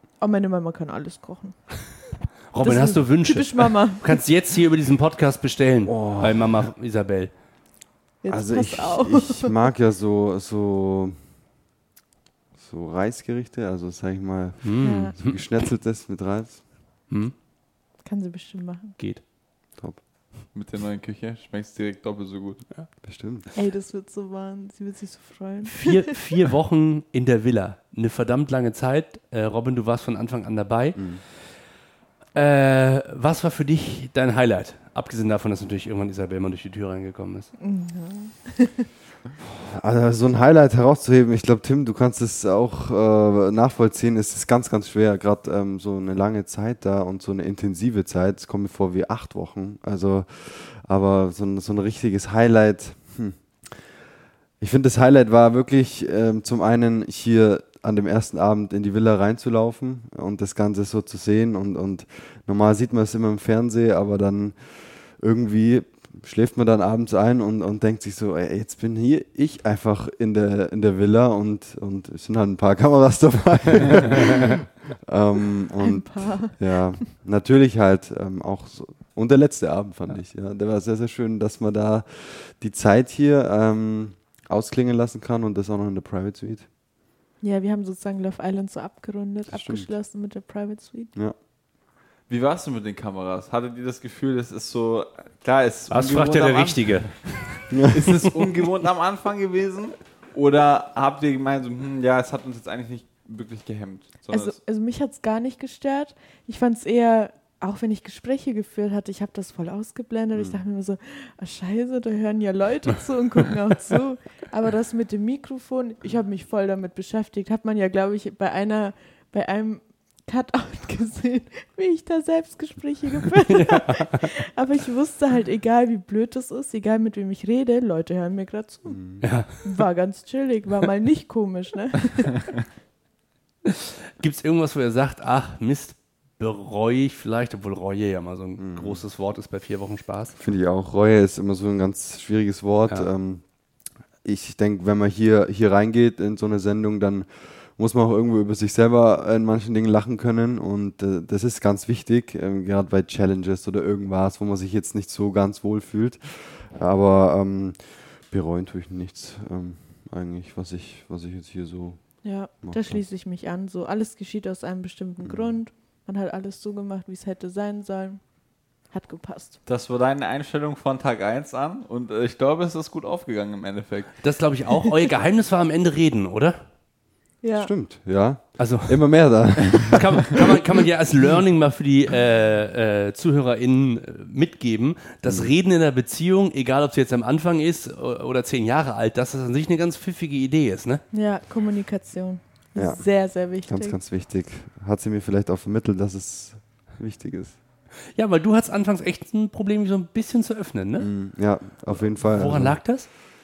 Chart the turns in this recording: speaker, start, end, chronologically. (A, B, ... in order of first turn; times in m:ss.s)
0:00.2-0:01.6 A
0:02.5-0:07.3 B
0:02.6-0:04.2 A
0:05.8-0:06.6 C
0:08.2-0:09.6 A
0:08.3-0:11.1 C
0:12.6-0:16.6 C
0:14.6-0:15.4 B
0:14.8-0:15.1 A
0:18.0-0:19.0 A
0:20.5-0:22.6 D
0:23.0-0:23.5 C
0:23.5-0:26.2 A
0:25.6-0:31.0 B
0:31.0-0:31.2 C
0:32.3-0:37.5 B
0:37.6-0:38.9 A
0:39.4-0:53.4 C
0:54.6-1:04.6 C
1:05.2-1:26.6 C
1:15.8-1:16.7 A
1:27.4-1:31.1 A
1:29.5-1:29.9 C
1:32.3-1:37.0 D
1:35.9-1:37.7 B
1:37.7-1:38.4 C
1:37.9-1:44.6 D
1:44.3-2:09.0 A
1:50.3-1:50.6 C
2:03.5-2:04.2 B
2:08.8-2:09.2 C
2:09.2-2:09.8 B
2:09.6-2:12.4 A
2:13.6-2:20.3 B
2:18.6-2:19.0 C
2:20.4-2:23.4 C
2:24.2-2:42.0 C
2:42.2-2:48.2 A
2:42.6-2:43.0 C
2:45.2-2:45.6 C
2:48.9-2:49.6 A
2:49.6-2:54.1 D
2:54.2-2:56.6 B
2:57.4-2:57.7 A
2:57.5-3:00.6 C
2:58.6-2:59.0 B
2:59.9-3:11.0 B
3:05.2-3:05.5 C
3:11.1-3:14.0 A
3:12.8-3:17.6 C
3:18.2-3:21.1 B
3:21.0-3:22.8 C
3:21.9-3:23.1 B